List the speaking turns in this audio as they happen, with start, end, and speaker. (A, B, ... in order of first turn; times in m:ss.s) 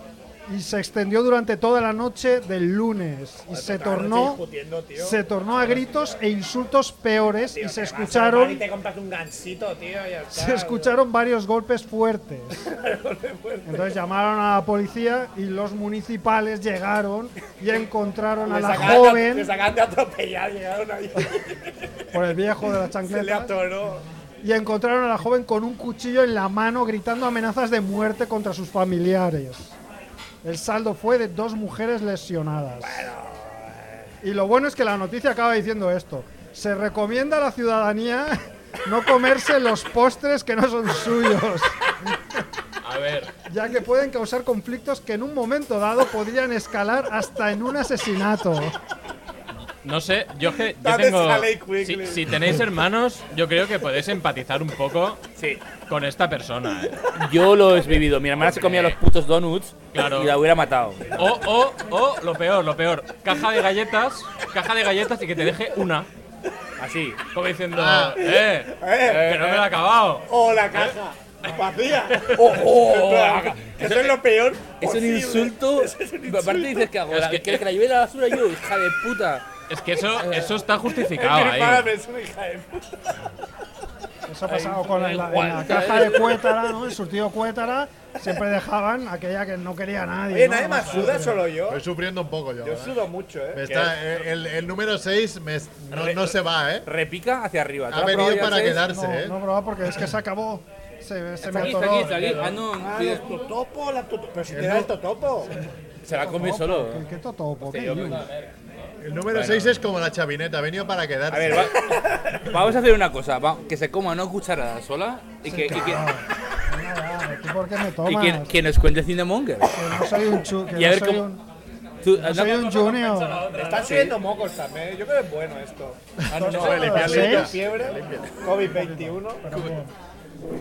0:00.5-0:04.4 A
0:03.5-0:05.2 B
0:05.0-0:08.6 A
0:07.4-0:10.9 B
0:10.3-0:12.7 A
0:12.6-0:13.9 B
0:13.6-0:19.5 A
0:18.4-0:21.6 B
0:22.1-0:23.5 A
0:23.0-0:24.1 B
0:24.4-0:29.8 A
0:30.4-0:33.1 A
0:32.8-0:34.1 B
0:34.2-0:41.8 A
0:42.8-0:43.3 C
0:43.5-0:48.8 A
0:49.8-0:55.2 C
0:50.8-0:52.4 B
0:55.4-0:55.6 D
0:55.9-0:57.0 C
0:57.1-1:01.2 D
0:58.4-0:59.0 C
0:59.9-1:00.4 C
1:01.1-1:06.1 C
1:06.8-1:07.2 D
1:07.3-1:11.0 C
1:07.7-1:08.3 E
1:08.3-1:09.4 B
1:09.0-1:09.7 D
1:10.3-1:16.9 B
1:12.3-1:14.2 D
1:14.8-1:20.7 D
1:17.1-1:17.6 C
1:19.7-1:21.9 C
1:21.1-1:23.0 B
1:24.3-1:31.5 A
1:24.5-1:26.5 D
1:25.9-1:26.1 B
1:30.3-1:31.8 B
1:30.8-1:31.2 C
1:31.7-1:36.9 E
1:32.6-1:33.9 B
1:35.9-1:38.8 D
1:37.9-1:39.4 E
1:38.1-1:42.3 A
1:41.4-1:43.3 D
1:41.5-1:42.7 C
1:42.7-1:45.5 B
1:44.5-1:44.9 E
1:46.0-1:47.0 D
1:46.1-1:48.2 A
1:47.6-1:48.3 D
1:48.0-1:49.8 C
1:49.0-1:51.7 E
1:51.3-1:51.8 D
1:51.7-1:52.4 B
1:52.3-1:56.1 D
1:55.4-1:58.5 A
1:58.1-1:59.8 D
1:59.7-2:01.4 A
2:00.7-2:01.3 D
2:02.0-2:02.7 D
2:02.1-2:03.5 A
2:02.4-2:04.2 C
2:03.5-2:06.0 B
2:03.8-2:04.1 D
2:06.2-2:08.3 E
2:06.3-2:07.5 D
2:06.4-2:07.6 A
2:06.7-2:09.5 B
2:08.6-2:09.9 A